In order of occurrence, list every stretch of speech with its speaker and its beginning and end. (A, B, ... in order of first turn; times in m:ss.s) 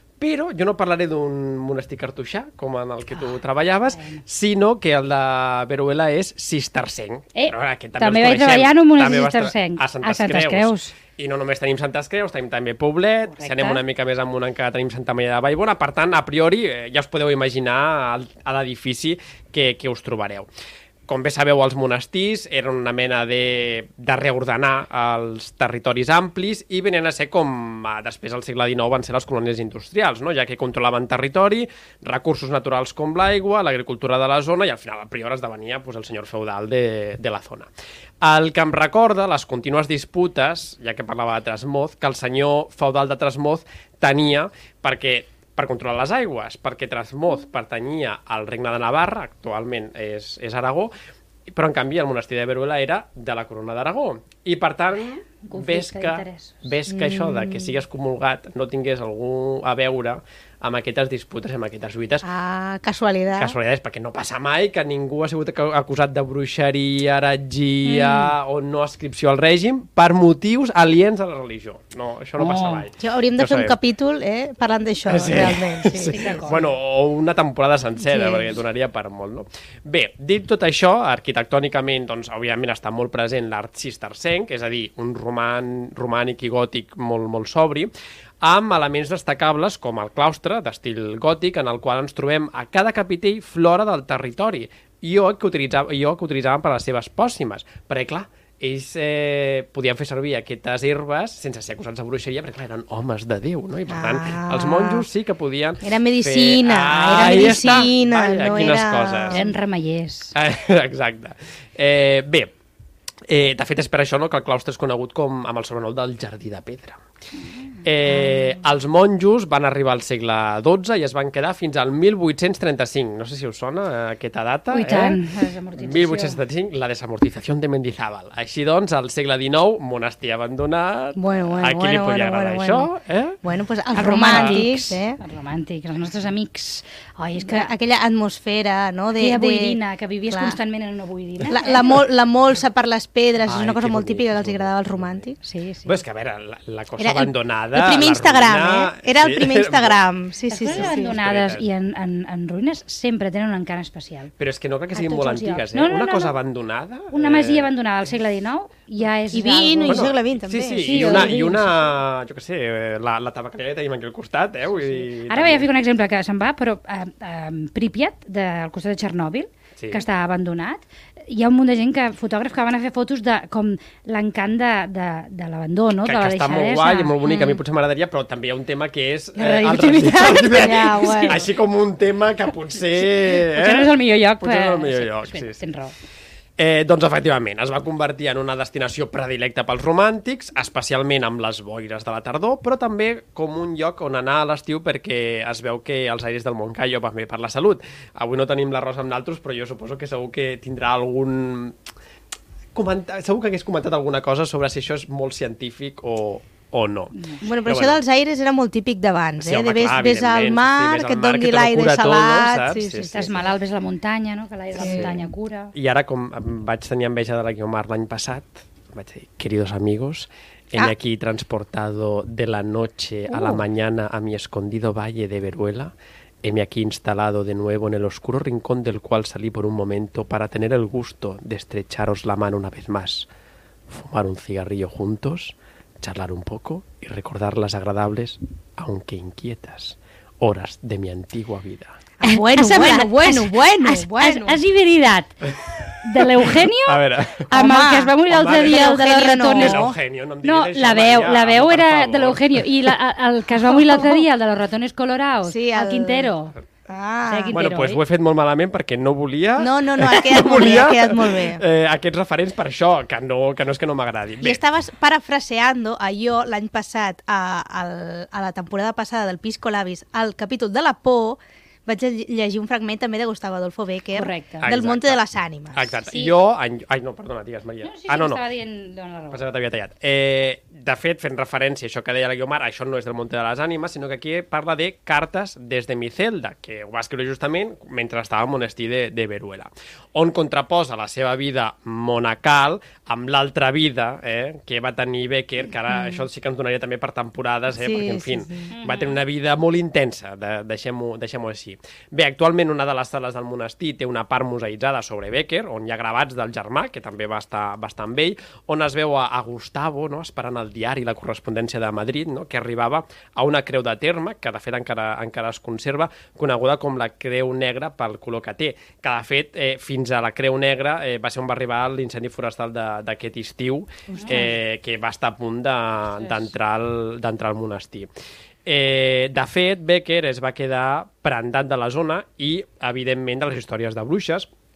0:00.2-0:20.5 A
0:03.9-0:04.2 B
0:07.4-0:11.0 B
0:13.3-0:13.8 B
0:21.1-0:37.7 A
0:38.2-0:50.9 A
0:51.5-1:02.3 A
0:55.3-0:56.6 B
0:56.9-0:57.8 C
1:02.2-1:03.6 C
1:03.3-1:13.8 A
1:07.9-1:08.3 C
1:12.4-1:12.9 B
1:13.0-1:16.3 C
1:15.1-1:27.9 A
1:16.1-1:16.7 B
1:18.1-1:18.4 C
1:28.4-1:49.4 A
1:43.9-1:45.1 C
1:45.8-1:49.5 C
1:49.3-1:50.3 B
1:50.4-1:52.5 A
1:53.3-1:57.0 A
1:57.8-2:13.4 A
2:04.7-2:06.4 B
2:11.2-2:12.9 C
2:13.4-2:15.2 C
2:14.0-2:17.7 B
2:14.2-2:14.7 A
2:17.4-2:20.6 C
2:19.2-2:22.0 B
2:21.4-2:25.4 C
2:23.4-2:25.2 A
2:25.4-2:26.0 B
2:25.9-2:30.0 A
2:27.0-2:31.2 C
2:30.5-2:34.3 B
2:30.7-2:31.6 A
2:34.4-2:37.7 A
2:35.0-2:36.3 B
2:37.1-2:40.0 B
2:39.3-2:41.4 C
2:39.9-2:45.7 A
2:40.8-2:41.7 B
2:45.2-2:57.1 B
2:49.8-2:50.0 A
2:56.0-3:05.6 A
2:57.2-2:57.6 C
2:59.4-3:01.4 B
2:59.9-3:01.5 C
3:03.4-3:06.0 B
3:06.6-3:21.8 A
3:22.8-3:28.0 A
3:27.2-3:27.4 B
3:27.4-3:33.4 C
3:29.4-3:33.3 A
3:33.0-3:35.7 B
3:34.8-3:35.2 C
3:34.8-3:35.1 A
3:35.7-3:45.9 A
3:43.3-3:43.6 B
3:46.4-3:53.3 A
3:53.9-4:02.0 A
4:02.2-4:04.6 C
4:02.2-4:09.9 B
4:06.6-4:07.5 A
4:07.5-4:10.0 C
4:08.3-4:08.9 A
4:09.6-4:12.9 A
4:10.4-4:16.6 B
4:15.4-4:16.3 C
4:16.9-4:17.6 C
4:17.3-4:18.0 B
4:17.5-4:24.6 A
4:19.6-4:21.6 C
4:24.4-4:35.8 C
4:34.1-4:34.7 B
4:34.6-4:35.2 A
4:35.7-4:38.4 A
4:36.1-4:36.3 B
4:37.8-4:39.4 B
4:39.3-5:28.1 A
4:57.7-4:58.7 C
4:58.7-4:59.1 B
5:24.1-5:24.5 B
5:24.1-5:24.5 C
5:28.7-5:34.5 A